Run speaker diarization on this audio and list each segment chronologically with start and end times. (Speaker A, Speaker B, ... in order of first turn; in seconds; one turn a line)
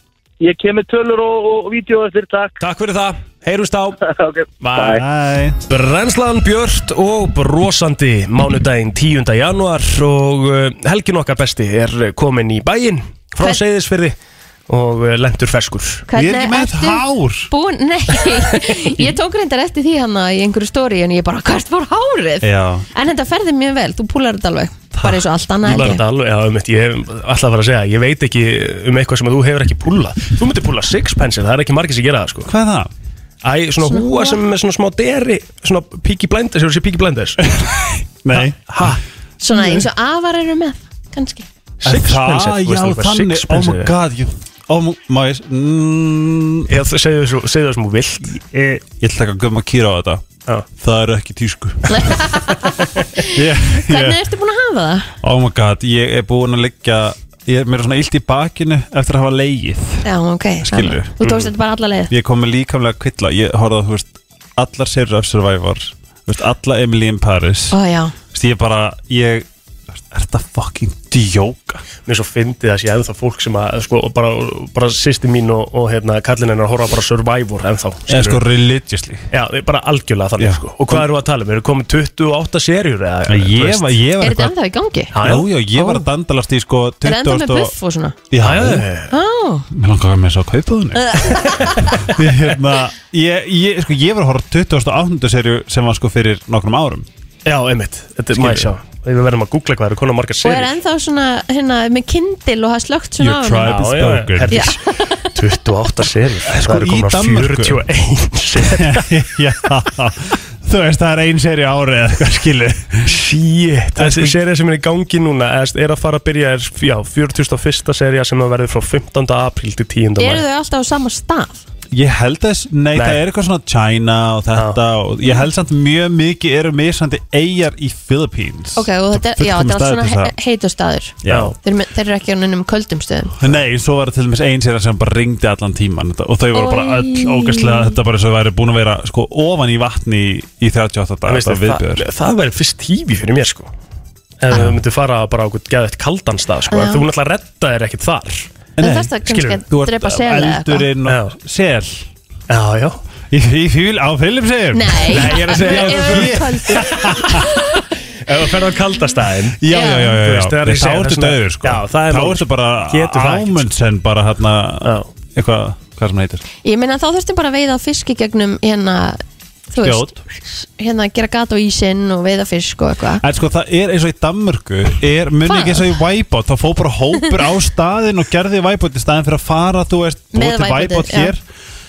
Speaker A: 0.4-2.6
Speaker B: 2.6-4.0
Speaker A: 4.0-5.0
Speaker B: 4.6-5.0
Speaker C: 4.8-5.6
Speaker B: 5.7-14.2
Speaker B: 14.7-16.1
Speaker D: 16.1-26.0
Speaker C: 16.1-17.5
Speaker C: 22.4-22.9
Speaker C: 24.9-25.2
Speaker B: 25.6-32.5
Speaker C: 32.5-32.9
Speaker B: 33.4-37.5
Speaker D: 33.9-34.4
Speaker C: 37.6-39.9
Speaker B: 38.3-39.0
Speaker D: 39.4-41.5
Speaker B: 41.8-43.9
Speaker C: 41.9-46.7
Speaker B: 46.7-48.3
Speaker C: 48.3-50.3
Speaker C: 50.8-52.6
Speaker D: 51.9-55.1
Speaker C: 53.2-54.2
Speaker C: 55.2-60.1
Speaker D: 60.0-62.1
Speaker C: 60.6-61.2
Speaker B: 61.2-61.5
Speaker C: 62.1-67.8
Speaker D: 67.7-68.1
Speaker C: 68.3-69.5
Speaker C: 70.1-71.9
Speaker B: 72.0-78.4
Speaker C: 78.1-79.3
Speaker B: 79.3-84.0
Speaker C: 80.4-81.1
Speaker C: 83.3-84.5
Speaker D: 84.2-85.2
Speaker B: 85.1-85.5
Speaker C: 85.2-87.7
Speaker D: 85.8-86.0
Speaker D: 87.0-88.2
Speaker C: 88.3-88.9
Speaker B: 88.4-89.2
Speaker D: 89.1-89.7
Speaker C: 89.7-97.1
Speaker D: 91.0-91.9
Speaker B: 97.5-100.7
Speaker C: 98.3-98.7
Speaker D: 100.4-103.8
Speaker C: 103.2-104.8
Speaker B: 103.7-109.1
Speaker D: 104.5-104.8
Speaker C: 106.5-107.8
Speaker C: 108.6-113.1
Speaker B: 113.1-120.5
Speaker C: 114.0-114.3
Speaker D: 120.2-121.6
Speaker C: 121.9-130.3
Speaker B: 122.9-123.2
Speaker D: 128.8-133.3
Speaker C: 131.2-131.6
Speaker B: 131.3-131.6
Speaker C: 133.4-142.1
Speaker D: 136.5-137.9
Speaker B: 141.3-143.7
Speaker B: 144.4-148.7
Speaker C: 144.5-144.8
Speaker D: 146.7-147.1
Speaker C: 148.8-152.1
Speaker D: 148.8-150.9
Speaker B: 149.3-149.6
Speaker B: 151.1-151.3
Speaker B: 152.5-153.0
Speaker C: 153.3-157.6
Speaker D: 154.7-157.8
Speaker B: 155.1-157.2
Speaker B: 158.3-163.7
Speaker C: 159.6-166.4
Speaker D: 159.7-160.2
Speaker B: 164.8-165.1
Speaker D: 166.6-173.2
Speaker C: 169.8-170.2
Speaker C: 173.2-181.4
Speaker D: 175.5-176.0
Speaker D: 180.3-181.3